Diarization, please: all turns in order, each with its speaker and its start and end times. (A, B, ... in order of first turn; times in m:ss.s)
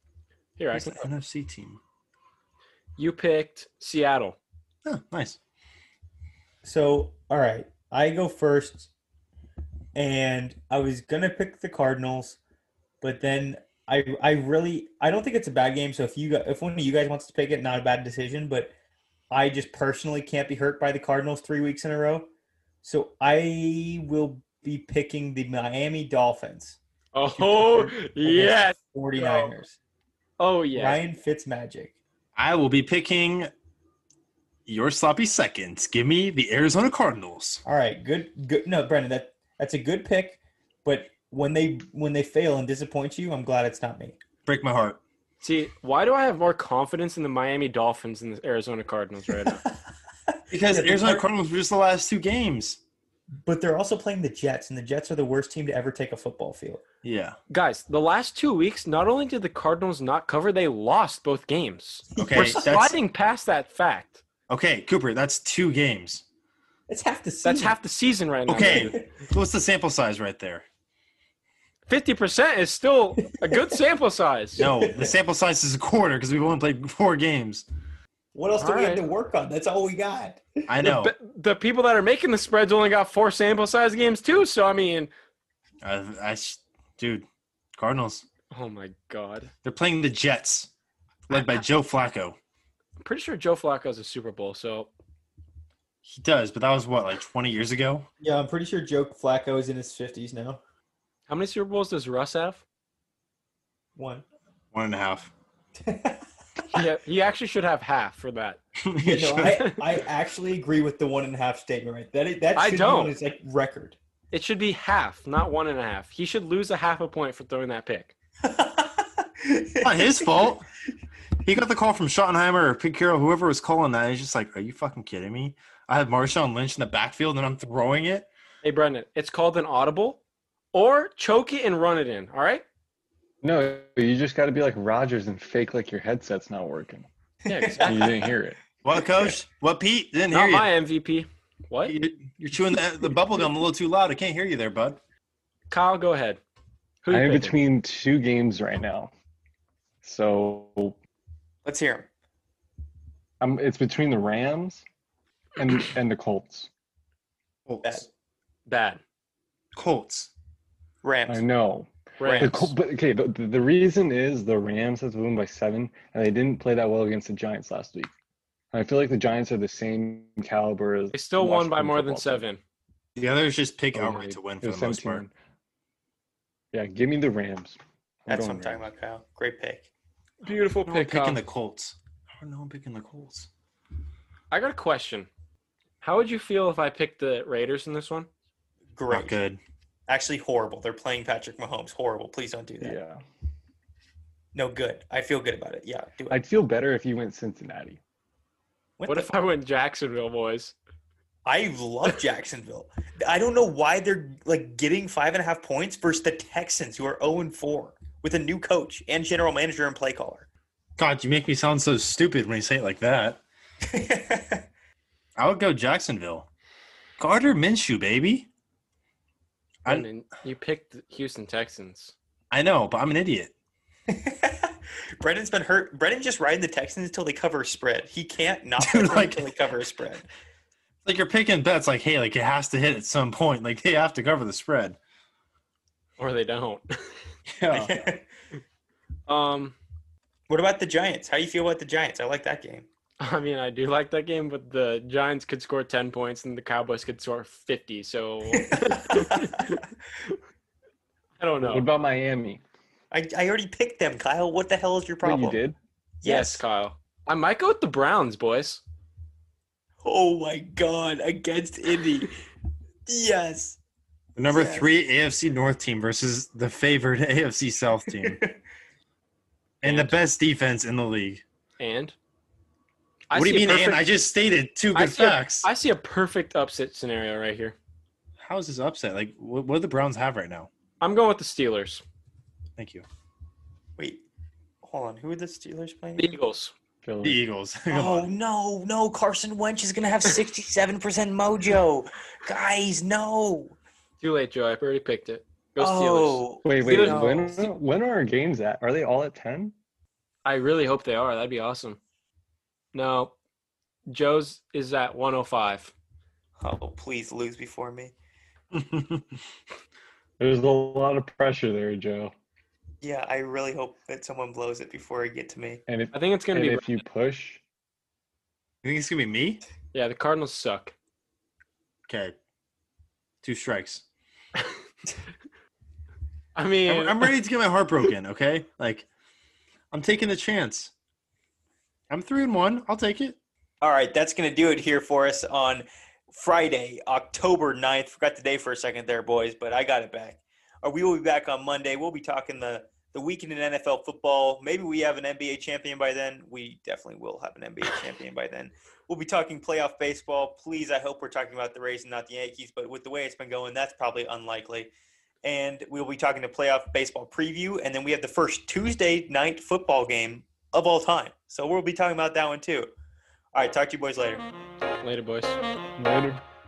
0:00.6-0:01.1 A
0:00.7-0:01.8 B
0:03.0-0:04.4 A
0:04.8-0:05.4 B
0:06.6-0:08.9 C
0:09.9-0:12.4 C
0:13.0-0:18.7 C
0:19.3-0:22.3 C
0:22.8-0:26.8 C
0:27.1-0:29.5 A
0:27.3-0:29.8 C
0:30.4-0:31.0 A
0:30.7-0:31.9 C
0:32.4-0:33.5 B
0:34.7-0:37.6 B
0:37.6-0:44.2 C
0:44.4-0:45.0 B
0:45.4-0:49.6 A
0:49.5-0:49.8 C
0:50.3-0:51.2 C
0:50.5-0:52.8 B
0:53.4-0:56.8 C
0:57.0-0:57.4 B
0:57.5-1:04.2 A
1:02.1-1:02.7 C
1:02.2-1:03.0 B
1:04.5-1:06.2 B
1:06.9-1:07.8 C
1:07.4-1:09.0 A
1:08.5-1:10.6 B
1:08.6-1:09.0 C
1:11.9-1:14.6 A
1:13.4-1:13.7 C
1:14.6-1:15.2 C
1:14.6-1:17.6 B
1:18.3-1:20.7 C
1:18.6-1:19.0 A
1:20.7-1:21.1 B
1:20.8-1:25.1 A
1:25.8-1:28.2 B
1:28.5-1:29.5 A
1:29.6-1:30.7 B
1:31.3-1:32.4 B
1:33.0-1:34.9 A
1:36.0-1:38.1 B
1:38.2-1:40.6 C
1:41.3-1:42.6 A
1:44.0-1:44.2 C
1:44.7-1:45.3 B
1:45.8-1:46.2 C
1:46.7-1:48.6 A
1:48.8-1:49.6 B
1:49.0-1:54.0 C
1:49.5-1:49.8 A
1:52.6-1:53.1 A
1:54.3-1:58.1 A
1:58.4-2:00.5 C
1:59.8-2:00.7 B
2:01.4-2:08.3 B
2:08.6-2:10.2 A
2:10.7-2:12.6 A
2:13.4-2:17.1 D
2:17.4-2:18.3 C
2:17.4-2:18.2 A
2:17.8-2:18.6 D
2:18.8-2:20.7 B
2:19.0-2:19.3 C
2:20.3-2:21.9 A
2:21.8-2:25.0 B
2:25.7-2:26.4 A
2:27.0-2:27.6 A
2:27.1-2:29.1 D
2:30.0-2:31.0 D
2:31.6-2:32.1 C
2:33.4-2:34.8 D
2:35.6-2:36.7 D
2:37.6-2:38.0 B
2:38.7-2:39.0 A
2:39.7-2:40.3 B
2:41.0-2:41.4 C
2:41.3-2:48.1 D
2:42.2-2:42.7 A
2:42.2-2:42.6 C
2:48.7-2:52.4 D
2:51.1-2:52.6 A
2:53.2-2:55.2 B
2:53.9-2:55.3 D
2:56.7-2:58.8 D
2:58.3-2:59.9 C
3:00.4-3:01.4 A
3:00.8-3:03.5 B
3:04.5-3:05.3 A
3:06.0-3:08.3 A
3:08.9-3:09.4 C
3:09.1-3:09.6 B
3:10.1-3:13.0 C
3:12.8-3:13.2 D
3:14.5-3:16.4 C
3:16.3-3:18.0 D
3:19.0-3:19.3 C
3:19.0-3:20.7 A
3:21.4-3:30.5 C
3:31.0-3:33.4 B
3:33.8-3:34.7 C
3:35.4-3:36.5 B
3:37.2-3:38.5 B
3:39.9-3:42.1 A
3:42.5-3:43.5 B
3:44.1-3:50.3 C
3:48.8-3:49.5 B
3:51.0-3:55.0 B
3:56.2-3:56.9 A
3:57.6-3:58.0 B
3:57.7-3:58.2 C
3:59.3-3:59.8 A
4:00.5-4:02.9 C
4:03.2-4:09.8 A
4:08.5-4:09.8 C
4:11.4-4:11.9 A
4:11.6-4:12.6 D
4:13.1-4:15.6 C
4:15.2-4:15.8 D
4:16.2-4:16.6 C
4:16.2-4:18.8 A
4:20.0-4:22.4 C
4:23.0-4:23.8 C
4:24.4-4:28.4 B
4:24.5-4:24.9 C
4:28.1-4:28.6 C
4:29.8-4:31.4 B
4:29.8-4:30.2 A
4:31.8-4:32.1 A
4:33.3-4:34.0 A
4:33.3-4:35.7 B
4:34.9-4:37.8 A
4:38.4-4:40.7 B
4:41.0-4:42.0 A
4:42.8-4:43.0 B
4:44.0-4:44.2 C
4:44.8-4:46.4 C
4:46.2-4:46.7 A
4:47.0-4:47.4 D
4:47.2-4:48.3 B
4:47.9-4:53.8 C
4:54.2-4:57.7 A
4:55.8-4:57.2 C
4:56.6-4:59.7 D
5:00.4-5:02.0 A
5:02.9-5:03.3 A
5:04.1-5:05.9 A
5:06.6-5:08.1 C
5:08.7-5:09.2 B
5:10.4-5:12.3 D
5:13.0-5:15.8 C
5:15.9-5:17.6 D
5:16.1-5:17.0 A
5:18.8-5:19.6 B
5:19.9-5:20.9 A
5:22.1-5:22.3 B
5:23.4-5:24.0 B
5:26.6-5:27.3 A
5:26.9-5:29.0 B
5:29.9-5:30.9 B
5:32.1-5:33.4 B
5:33.8-5:54.9 C
5:55.4-6:02.9 C
6:03.5-6:04.4 C
6:05.0-6:05.6 A
6:06.0-6:06.4 D